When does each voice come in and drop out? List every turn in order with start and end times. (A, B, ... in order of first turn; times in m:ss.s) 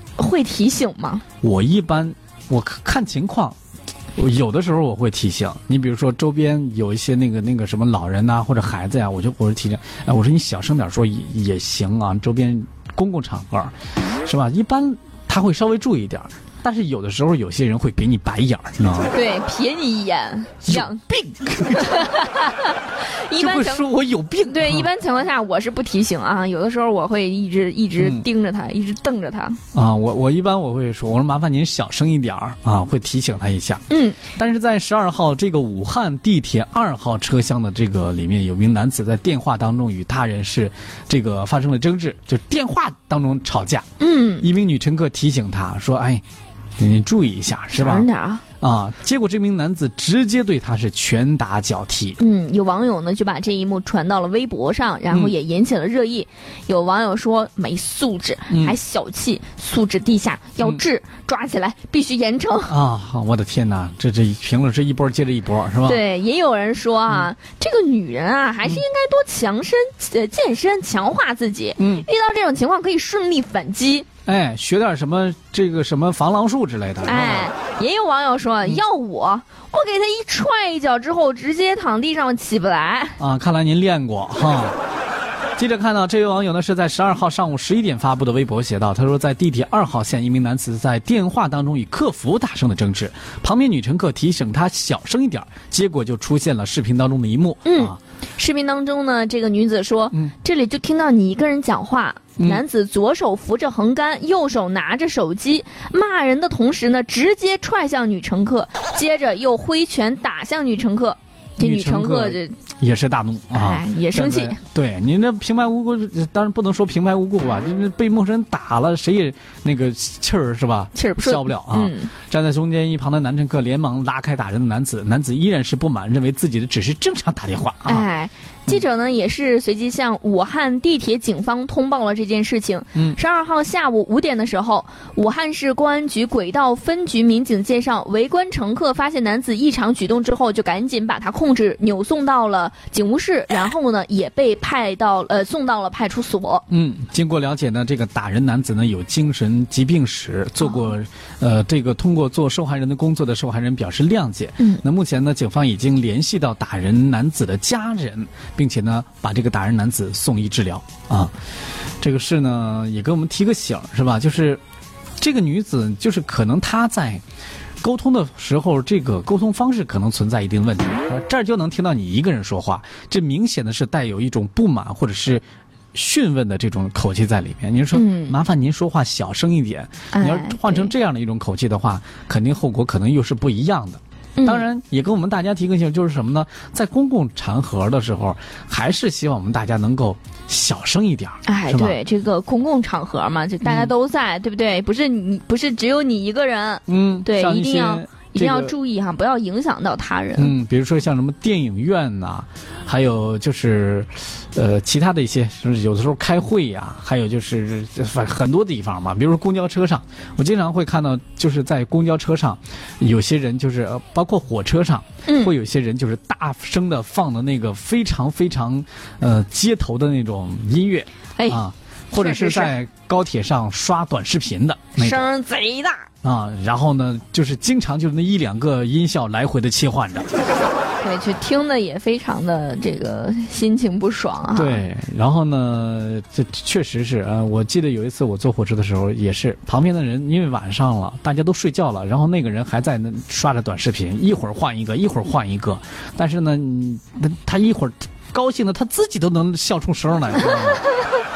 0:00.2-0:01.2 A
0:01.4-0:03.6 B
0:04.2-0:13.7 B
0:14.2-0:19.1 B
0:19.1-0:21.0 A
0:20.6-0:22.4 B
0:21.6-0:23.8 A
0:23.3-0:24.9 B
0:24.4-0:29.6 A
0:28.0-0:28.2 B
0:29.7-0:43.9 B
0:33.9-0:34.2 A
0:44.0-0:44.5 A
0:44.4-0:46.2 B
0:46.8-0:48.1 B
0:47.7-0:48.4 A
0:48.6-0:52.2 B
0:52.2-1:02.7 A
0:58.5-0:58.8 B
1:02.7-1:06.0 B
1:05.8-1:14.1 A
1:11.8-1:12.1 B
1:14.2-1:17.5 B
1:17.0-1:23.2 A
1:23.2-1:24.8 B
1:25.6-1:38.0 B
1:37.6-1:52.6 A
1:51.6-2:08.1 B
1:53.5-1:54.6 A
2:00.9-2:02.1 A
2:07.8-2:26.6 A
2:26.7-2:41.3 B
2:42.0-2:44.6 B
2:45.2-2:47.2 B
2:47.8-2:55.4 B
2:55.9-3:12.0 B
2:57.9-2:58.4 A
3:00.1-3:00.9 A
3:04.4-3:04.6 A
3:11.4-3:20.5 A
3:13.6-3:13.9 B
3:16.9-3:18.7 B
3:20.4-3:45.3 B
3:35.2-3:35.5 A
3:42.1-3:42.7 A
3:45.0-3:46.1 A
3:46.2-3:50.3 B
3:51.0-3:54.8 A
3:54.5-4:10.9 B